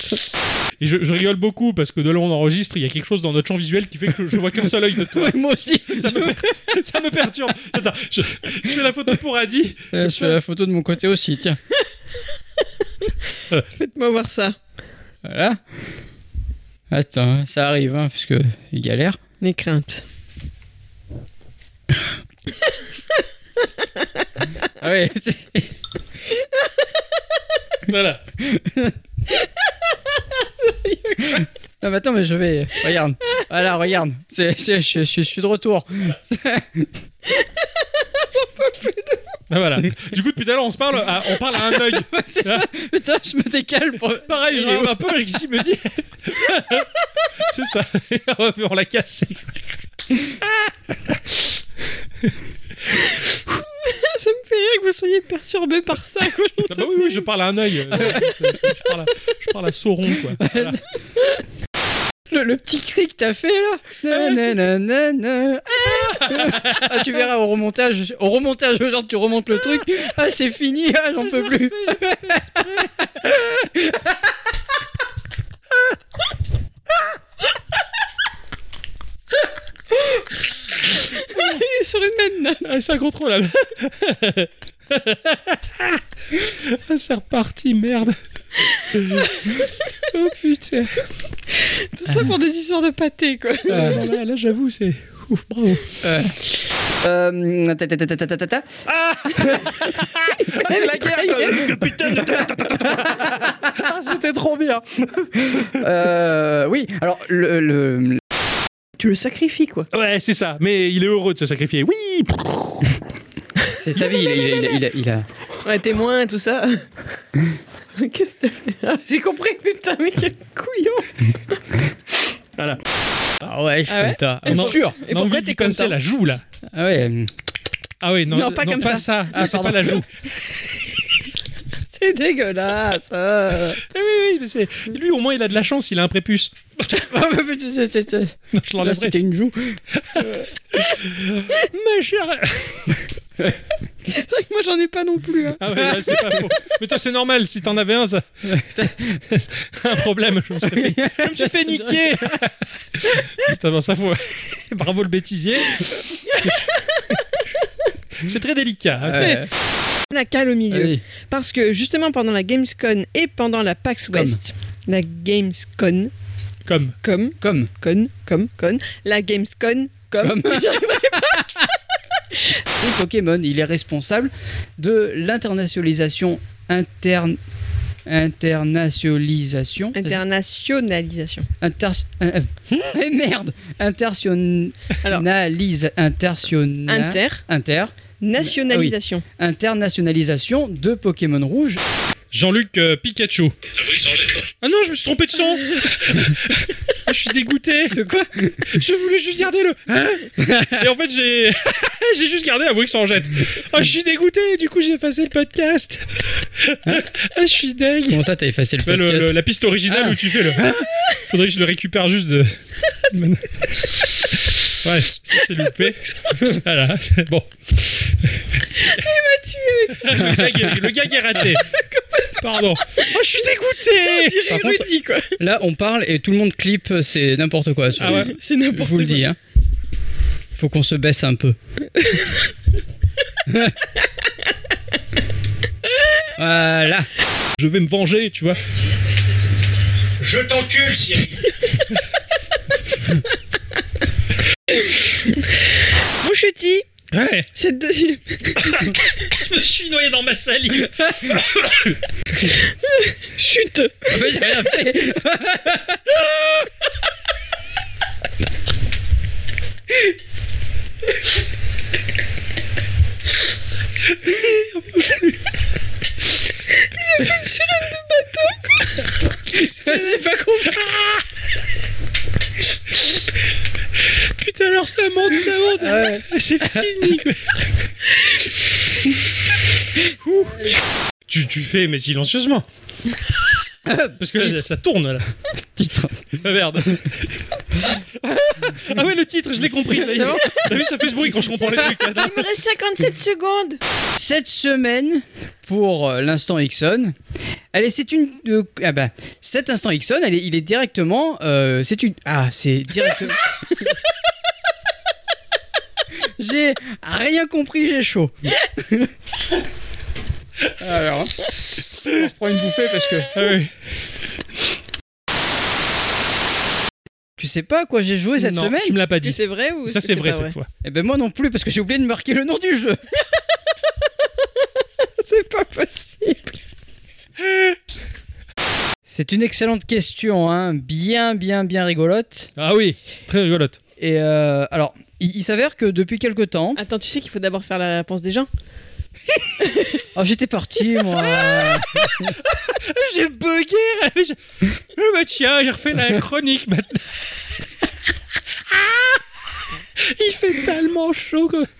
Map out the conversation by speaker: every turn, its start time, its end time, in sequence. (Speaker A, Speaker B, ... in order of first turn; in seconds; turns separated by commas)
Speaker A: 0.8-10.2, Speaker B: 5.0-6.5, Speaker B: 9.9-11.6, Speaker C: 13.7-14.6, Speaker B: 15.2-15.6, Speaker B: 16.9-19.2, Speaker C: 19.4-20.0, Speaker B: 24.8-25.7, Speaker A: 27.9-28.2, Speaker B: 28.4-28.9, Speaker C: 30.3-31.4, Speaker B: 31.3-36.9, Speaker C: 38.1-39.2, Speaker A: 39.5-42.7, Speaker B: 41.7-45.1, Speaker A: 44.3-49.6, Speaker A: 50.4-51.5, Speaker C: 52.9-57.2, Speaker A: 56.7-60.8, Speaker B: 57.9-58.5, Speaker B: 60.3-60.8, Speaker B: 62.3-74.2, Speaker A: 64.1-64.5, Speaker A: 66.1-67.0, Speaker A: 71.2-73.1, Speaker C: 81.0-82.7, Speaker A: 82.6-88.2, Speaker A: 88.9-89.3, Speaker A: 90.1-91.0, Speaker C: 91.6-94.0, Speaker A: 93.7-96.0, Speaker B: 93.7-94.1, Speaker B: 96.0-98.8, Speaker A: 98.9-105.8, Speaker B: 99.3-99.8, Speaker C: 100.4-101.8, Speaker B: 102.1-103.7, Speaker B: 105.4-108.2, Speaker C: 109.0-109.9, Speaker A: 109.9-113.0, Speaker B: 113.7-115.3, Speaker C: 115.6-116.8, Speaker C: 117.9-121.6, Speaker B: 123.4-125.0, Speaker C: 123.9-126.0, Speaker A: 124.5-126.4, Speaker B: 126.7-127.3, Speaker A: 128.0-130.1, Speaker C: 128.3-129.1, Speaker B: 129.3-130.0, Speaker C: 131.9-133.8, Speaker A: 133.9-136.9, Speaker B: 136.9-140.4, Speaker A: 138.5-139.2, Speaker A: 139.9-143.0, Speaker C: 144.1-145.8, Speaker A: 145.6-148.2, Speaker B: 145.8-146.1, Speaker B: 148.4-149.2, Speaker A: 149.3-156.6, Speaker B: 150.6-152.4, Speaker C: 156.3-157.0, Speaker A: 158.2-159.4, Speaker B: 159.0-159.5, Speaker C: 159.1-159.4, Speaker C: 160.1-166.1, Speaker B: 160.7-161.0, Speaker B: 164.1-164.4, Speaker A: 166.6-166.9, Speaker C: 167.0-171.6, Speaker B: 167.4-167.7, Speaker B: 170.2-171.5, Speaker B: 172.8-177.4, Speaker B: 178.1-180.2, Speaker C: 179.9-181.5, Speaker B: 181.6-191.8, Speaker C: 186.9-187.4, Speaker C: 188.2-189.2, Speaker A: 192.3-198.0, Speaker B: 197.9-198.8, Speaker A: 198.7-208.2, Speaker B: 200.4-200.9, Speaker B: 208.1-210.4, Speaker A: 208.8-213.9, Speaker A: 214.7-219.0, Speaker C: 218.7-220.4, Speaker A: 219.9-221.7, Speaker B: 220.1-220.8, Speaker C: 221.7-225.4, Speaker A: 222.4-224.5, Speaker B: 224.5-229.4, Speaker A: 228.0-228.3, Speaker C: 228.0-229.2, Speaker B: 230.5-231.6, Speaker C: 232.0-232.3, Speaker B: 233.5-233.8, Speaker B: 236.3-237.1, Speaker A: 237.6-238.6, Speaker A: 240.1-241.6, Speaker C: 246.2-246.9, Speaker A: 247.1-247.5, Speaker C: 247.5-248.9, Speaker A: 248.6-252.0, Speaker C: 252.6-254.4, Speaker B: 254.1-256.0, Speaker A: 264.3-265.3, Speaker C: 266.8-269.1, Speaker A: 269.4-271.2, Speaker B: 269.5-270.9, Speaker A: 274.2-277.6, Speaker B: 275.8-276.9, Speaker A: 280.2-280.7, Speaker A: 281.3-282.6, Speaker B: 283.8-284.6, Speaker A: 284.2-285.3, Speaker B: 285.8-286.4, Speaker A: 286.3-292.5, Speaker C: 290.1-290.9, Speaker C: 291.6-293.8, Speaker B: 294.1-297.1, Speaker B: 297.7-303.4, Speaker B: 306.4-309.1, Speaker B: 310.8-311.3, Speaker B: 312.0-313.5, Speaker A: 313.3-313.7, Speaker B: 317.4-319.0, Speaker A: 318.4-320.7, Speaker C: 319.1-320.5, Speaker B: 320.8-323.0, Speaker C: 324.6-326.6, Speaker A: 327.4-327.8, Speaker B: 329.0-332.5, Speaker A: 332.6-333.8, Speaker B: 334.0-336.8, Speaker C: 336.8-338.5, Speaker C: 339.6-340.0, Speaker B: 340.1-342.4, Speaker A: 341.4-344.4, Speaker A: 344.9-347.4, Speaker A: 348.7-349.2, Speaker A: 350.0-351.7